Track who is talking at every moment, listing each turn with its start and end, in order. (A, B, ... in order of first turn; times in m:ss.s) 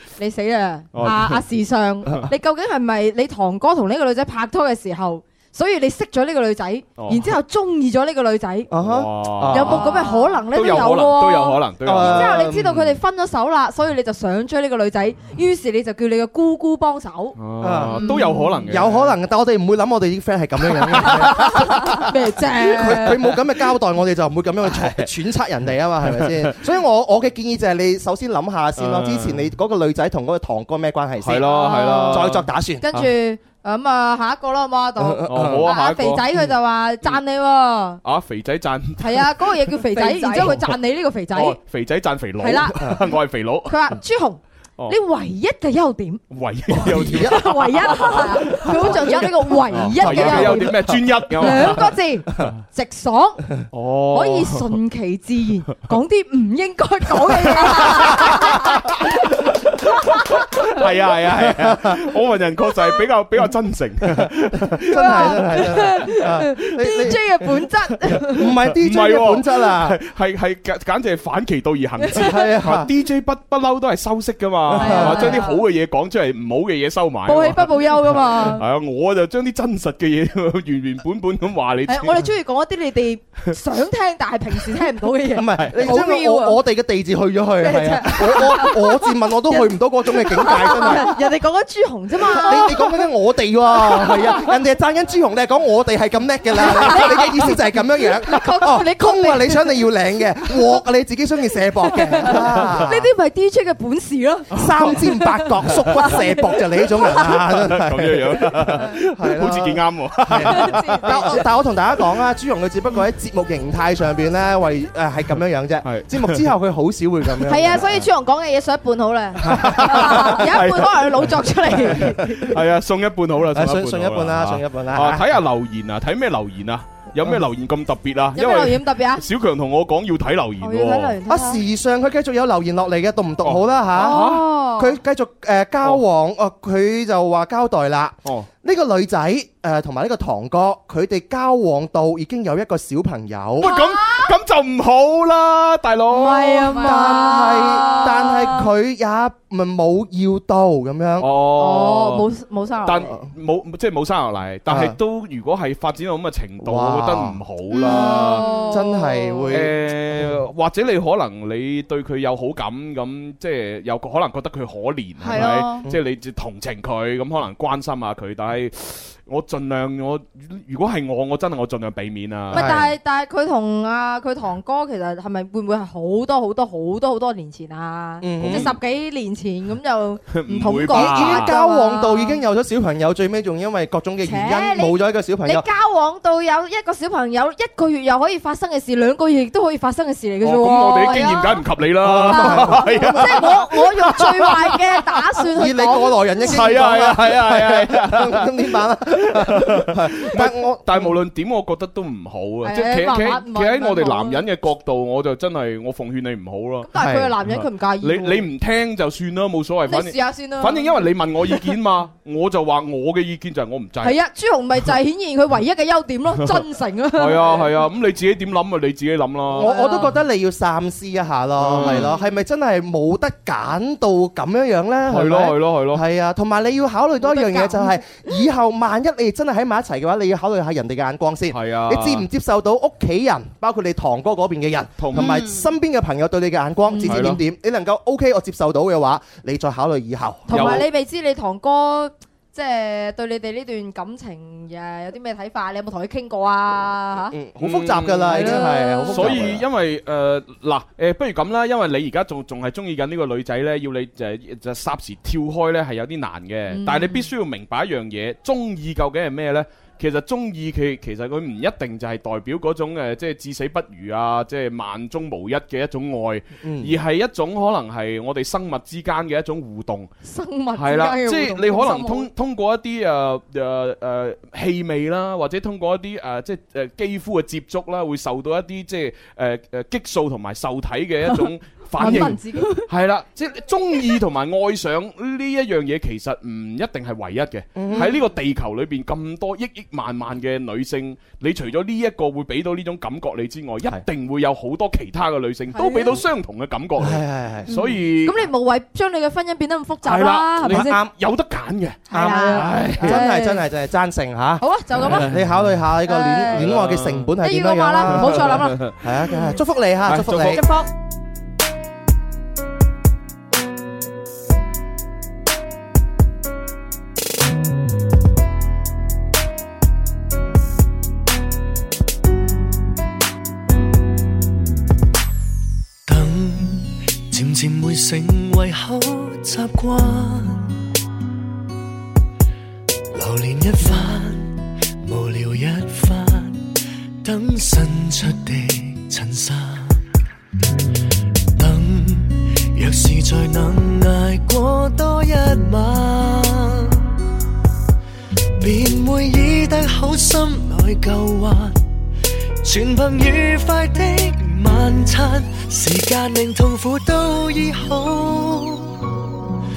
0:00.2-0:08.7 A
0:00.9-0:01.5 B
0:02.0-0:02.3 B
0:07.0-0:07.4 B
0:08.7-0:10.1 C
0:08.8-0:12.9 B
0:09.5-0:17.4 A
0:11.8-0:12.7 C
0:17.3-0:19.2 B
0:17.6-0:18.1 C
0:17.9-0:18.7 A
0:18.7-0:32.8 C
0:20.7-0:21.5 B
0:21.0-0:23.3 A
0:24.7-0:25.0 B
0:26.0-0:26.6 B
0:28.8-0:29.5 B
0:31.2-0:33.1 B
0:31.4-0:38.0 A
0:35.0-0:35.7 C
0:35.2-0:36.3 B
0:38.0-0:40.0 B
0:39.0-0:41.6 A
0:41.4-0:44.0 B
0:42.4-0:43.1 A
0:43.7-0:59.0 A
0:46.3-0:52.6 B
0:46.7-0:50.9 C
0:51.5-0:51.8 C
0:53.7-0:54.8 B
0:57.5-1:05.2 B
1:01.6-1:01.9 C
1:04.3-1:07.5 C
1:04.9-1:08.6 A
1:07.9-1:22.4 B
1:08.3-1:10.0 C
1:12.0-1:12.3 A
1:12.1-1:12.9 C
1:14.7-1:15.6 A
1:14.7-1:15.5 C
1:17.2-1:18.6 A
1:21.8-1:26.6 A
1:25.3-1:31.2 C
1:25.5-1:25.8 B
1:27.6-1:33.1 A
1:32.3-1:43.1 C
1:33.8-1:34.2 A
1:36.6-1:37.5 A
1:38.2-1:39.8 A
1:41.8-1:47.5 A
1:44.5-1:58.1 C
1:44.5-1:45.0 B
1:45.7-1:46.0 B
1:47.6-1:51.0 B
1:48.5-1:48.8 A
1:50.4-1:51.5 A
1:55.8-1:56.4 B
1:57.4-2:02.6 A
1:59.4-2:00.5 C
1:59.7-2:11.2 B
2:01.8-2:02.4 C
2:03.5-2:05.3 C
2:08.3-2:09.3 A
2:10.6-2:11.6 A
2:11.2-2:23.7 C
2:13.4-2:14.5 B
2:13.9-2:15.0 A
2:18.2-2:18.5 B
2:23.6-2:26.8 B
2:23.6-2:24.3 A
2:26.1-2:28.6 A
2:26.8-2:31.3 C
2:31.2-2:38.7 B
2:31.4-2:33.1 A
2:34.7-2:35.0 C
2:36.6-2:39.7 C
2:37.7-2:39.6 A
2:39.5-2:52.9 B
2:45.2-2:45.9 A
2:45.3-2:46.0 C
2:52.5-2:52.9 C
2:52.5-3:02.4 A
2:58.2-2:58.7 C
2:58.4-2:58.8 B
3:00.3-3:01.5 B
3:00.9-3:05.6 C
3:04.2-3:16.8 A
3:10.4-3:15.4 B
3:12.0-3:13.5 C
3:15.6-3:21.2 C
3:16.5-3:34.2 B
3:22.6-3:24.5 A
3:26.8-3:28.5 A
3:27.0-3:27.4 C
3:29.8-3:31.8 A
3:34.0-3:37.8 A
3:36.3-3:36.6 B
3:37.2-3:39.7 B
3:39.5-4:00.8 C
3:39.6-3:40.2 A
3:41.6-3:42.2 B
3:41.8-3:42.3 A
3:45.1-3:46.0 B
3:47.2-3:48.3 A
3:51.5-3:52.3 B
3:55.0-3:55.5 B
3:56.9-3:57.4 A
3:57.1-3:57.4 B
4:00.5-4:07.5 A
4:00.5-4:00.8 B
4:07.3-4:09.6 C
4:07.6-4:08.5 B
4:08.3-4:09.6 A
4:09.1-4:30.1 B
4:16.7-4:17.3 A
4:26.6-4:26.9 C
4:30.2-4:32.3 A
4:30.7-4:58.5 B
4:41.2-4:42.9 A
4:47.8-4:48.1 C
4:47.9-4:48.1 A
4:55.7-4:56.3 A
4:57.0-4:57.8 C
4:57.7-5:01.0 A
5:00.0-5:03.1 B
5:00.7-5:01.1 C
5:02.1-5:03.7 A
5:02.1-5:10.6 C
5:04.6-5:05.4 A
5:05.0-5:05.7 B
5:06.0-5:06.7 A
5:06.5-5:07.4 B
5:07.4-5:09.6 A
5:08.0-5:08.9 B
5:10.0-5:10.7 B
5:10.5-5:10.9 A
5:26.1-5:30.8 D
5:33.1-5:36.7 D
5:37.2-5:40.0 D
5:41.6-5:47.2 D
5:48.6-5:51.8 D
5:52.6-5:59.1 D